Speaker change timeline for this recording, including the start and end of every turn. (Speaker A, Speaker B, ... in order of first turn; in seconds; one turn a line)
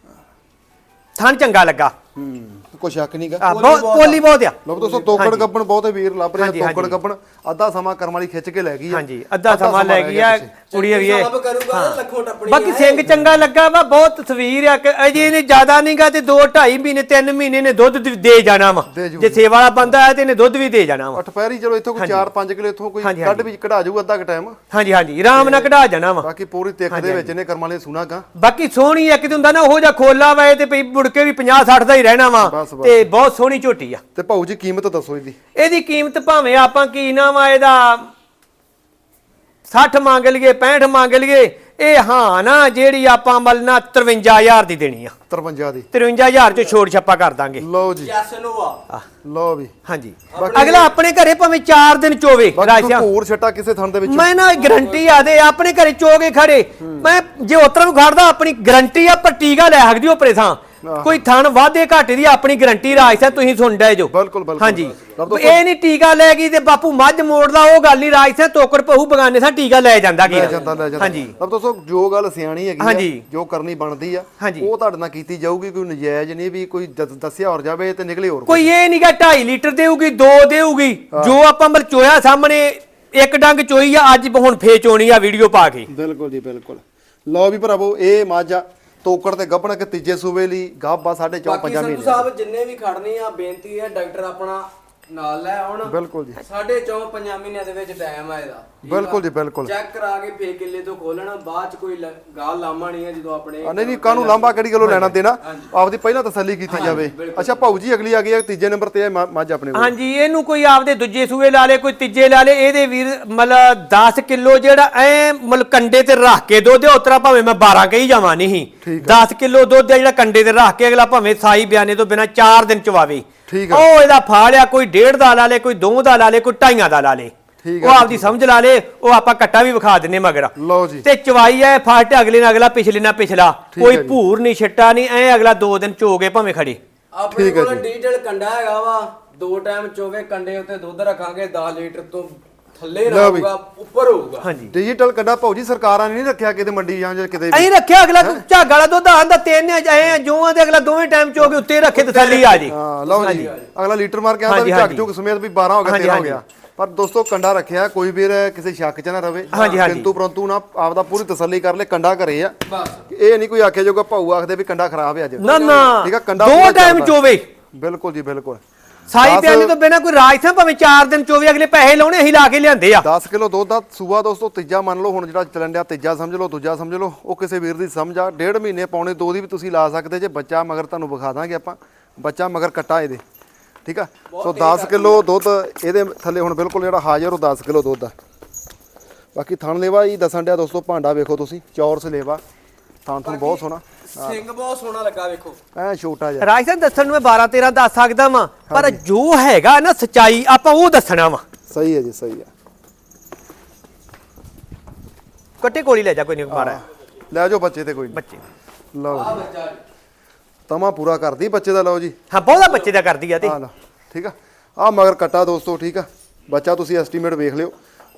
Speaker A: 1.2-1.9
Speaker B: 2.1-3.5
Speaker A: 3.4-4.6
Speaker C: 3.4-5.2
Speaker B: 4.7-10.5
Speaker A: 5.2-5.5
Speaker A: 6.4-7.0
Speaker A: 8.9-21.2
Speaker C: 10.7-13.0
Speaker B: 13.1-13.3
Speaker B: 18.9-19.4
Speaker B: 21.1-24.6
Speaker A: 22.0-22.2
Speaker A: 23.0-23.4
Speaker A: 24.7-26.3
Speaker B: 25.3-28.2
Speaker A: 26.9-27.3
Speaker A: 28.4-34.0
Speaker B: 32.4-33.1
Speaker B: 34.1-35.4
Speaker A: 35.5-38.1
Speaker A: 39.6-45.1
Speaker B: 45.3-45.9
Speaker A: 45.9-47.6
Speaker B: 47.6-48.1
Speaker C: 47.9-48.8
Speaker B: 49.2-49.7
Speaker A: 49.9-53.1
Speaker C: 50.3-50.9
Speaker B: 50.3-50.7
Speaker B: 52.5-54.3
Speaker A: 54.0-71.3
Speaker C: 54.4-55.3
Speaker B: 56.8-57.1
Speaker B: 60.8-61.2
Speaker B: 64.1-65.6
Speaker B: 70.2-78.7
Speaker C: 70.3-71.4
Speaker A: 72.8-73.2
Speaker A: 74.4-74.7
Speaker A: 78.5-85.9
Speaker B: 81.1-81.4
Speaker B: 85.9-92.3
Speaker C: 91.4-104.6
Speaker B: 95.8-96.4
Speaker B: 98.8-99.7
Speaker B: 103.6-109.9
Speaker A: 104.8-105.1
Speaker C: 105.4-105.7
Speaker C: 106.7-107.7
Speaker A: 109.7-136.8
Speaker B: 118.8-119.2
Speaker B: 123.5-123.9
Speaker B: 127.6-128.3
Speaker B: 130.6-131.1
Speaker B: 133.7-134.2
Speaker C: 137.1-144.5
Speaker B: 137.3-137.9
Speaker B: 143.1-143.5
Speaker A: 144.4-144.7
Speaker B: 144.7-148.4
Speaker A: 147.5-153.5
Speaker C: 151.9-153.7
Speaker B: 152.7-162.5
Speaker A: 154.5-155.1
Speaker A: 155.8-156.4
Speaker C: 159.5-159.8
Speaker A: 159.5-160.1
Speaker C: 162.7-163.0
Speaker B: 163.1-167.2
Speaker A: 165.4-167.4
Speaker C: 165.4-165.9
Speaker B: 167.7-168.6
Speaker A: 169.1-173.1
Speaker B: 169.2-169.7
Speaker B: 173.0-183.2
Speaker B: 183.8-188.1
Speaker C: 184.3-185.3
Speaker B: 189.3-192.4
Speaker B: 193.0-194.4
Speaker C: 193.2-195.6
Speaker B: 195.7-196.5
Speaker A: 196.4-201.4
Speaker B: 198.7-199.0
Speaker B: 201.7-202.5
Speaker A: 205.6-206.8
Speaker B: 206.5-208.2
Speaker A: 208.1-208.4
Speaker B: 208.9-209.4
Speaker C: 209.1-209.8
Speaker B: 210.7-212.2
Speaker A: 212.3-213.6
Speaker C: 212.6-212.9
Speaker B: 213.4-217.7